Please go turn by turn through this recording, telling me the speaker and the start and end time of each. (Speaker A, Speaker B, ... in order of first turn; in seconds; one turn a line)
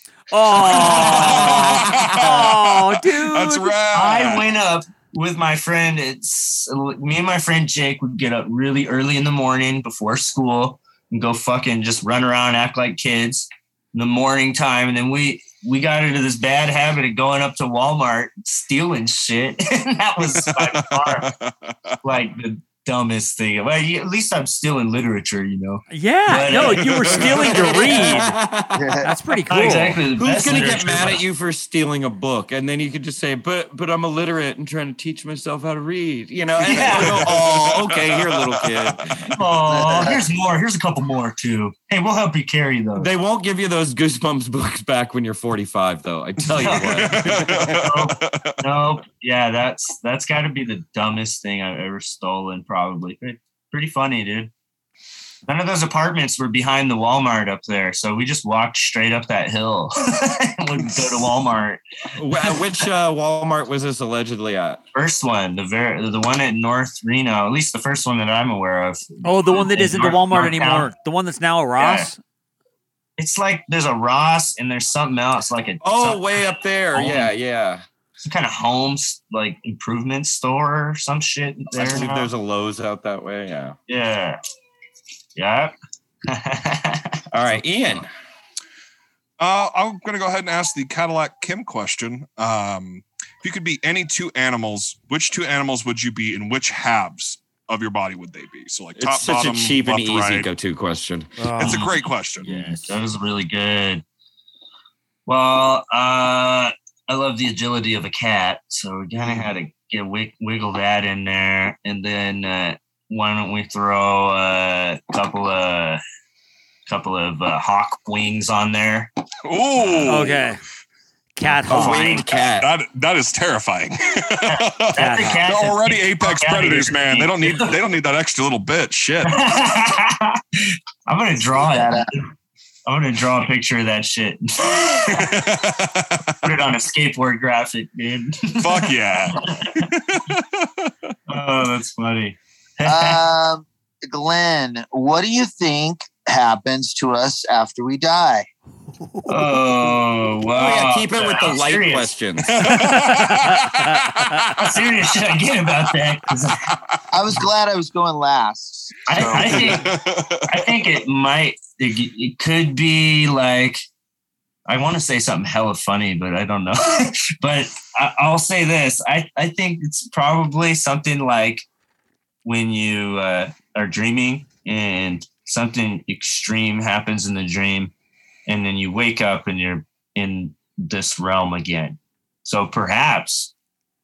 Speaker A: 0.3-3.8
Speaker B: 0.6-4.5
Speaker C: 0.8-2.4
Speaker D: 3.9-21.3
Speaker B: 20.2-22.0
Speaker D: 22.0-26.9
Speaker A: 25.9-28.4
Speaker B: 26.8-27.6
Speaker C: 27.1-28.9
Speaker E: 28.7-29.1
Speaker A: 29.0-30.0
Speaker D: 29.5-31.2
Speaker C: 30.1-39.4
Speaker D: 36.6-37.3
Speaker B: 37.0-38.9
Speaker D: 39.3-43.1
Speaker E: 39.7-40.2
Speaker C: 43.0-47.9
Speaker D: 46.6-54.5
Speaker B: 46.8-48.5
Speaker D: 55.5-61.8
Speaker C: 62.1-64.8
Speaker D: 64.9-70.9
Speaker A: 69.2-72.2
Speaker D: 71.8-72.1
Speaker D: 73.2-76.4
Speaker C: 75.8-77.8
Speaker D: 76.9-77.3
Speaker D: 78.2-82.3
Speaker C: 81.7-83.8
Speaker D: 83.9-84.4
Speaker D: 85.3-85.7
Speaker D: 86.3-87.2
Speaker C: 87.3-88.1
Speaker B: 89.4-100.5
Speaker C: 99.0-101.3
Speaker A: 101.4-101.8
Speaker B: 101.6-102.7
Speaker D: 101.6-104.0
Speaker D: 105.2-116.0
Speaker D: 116.9-119.1
Speaker B: 119.4-120.5
Speaker D: 119.8-120.1
Speaker A: 120.0-120.6
Speaker A: 121.3-122.2
Speaker C: 121.7-122.7
Speaker B: 122.6-129.4
Speaker D: 124.5-127.7
Speaker A: 125.0-125.4
Speaker D: 129.2-132.3
Speaker E: 131.5-132.1
Speaker D: 132.8-135.4
Speaker B: 135.1-136.4
Speaker D: 136.4-139.9
Speaker B: 138.6-140.9
Speaker D: 141.3-143.2
Speaker E: 142.8-148.5
Speaker D: 149.3-152.1
Speaker C: 150.5-152.7
Speaker B: 152.5-154.6
Speaker A: 152.7-154.5
Speaker D: 154.6-156.6
Speaker E: 157.1-159.8
Speaker D: 159.1-159.8
Speaker B: 159.3-160.7
Speaker D: 160.5-163.8
Speaker D: 164.7-171.7
Speaker D: 172.4-177.9
Speaker D: 178.5-183.5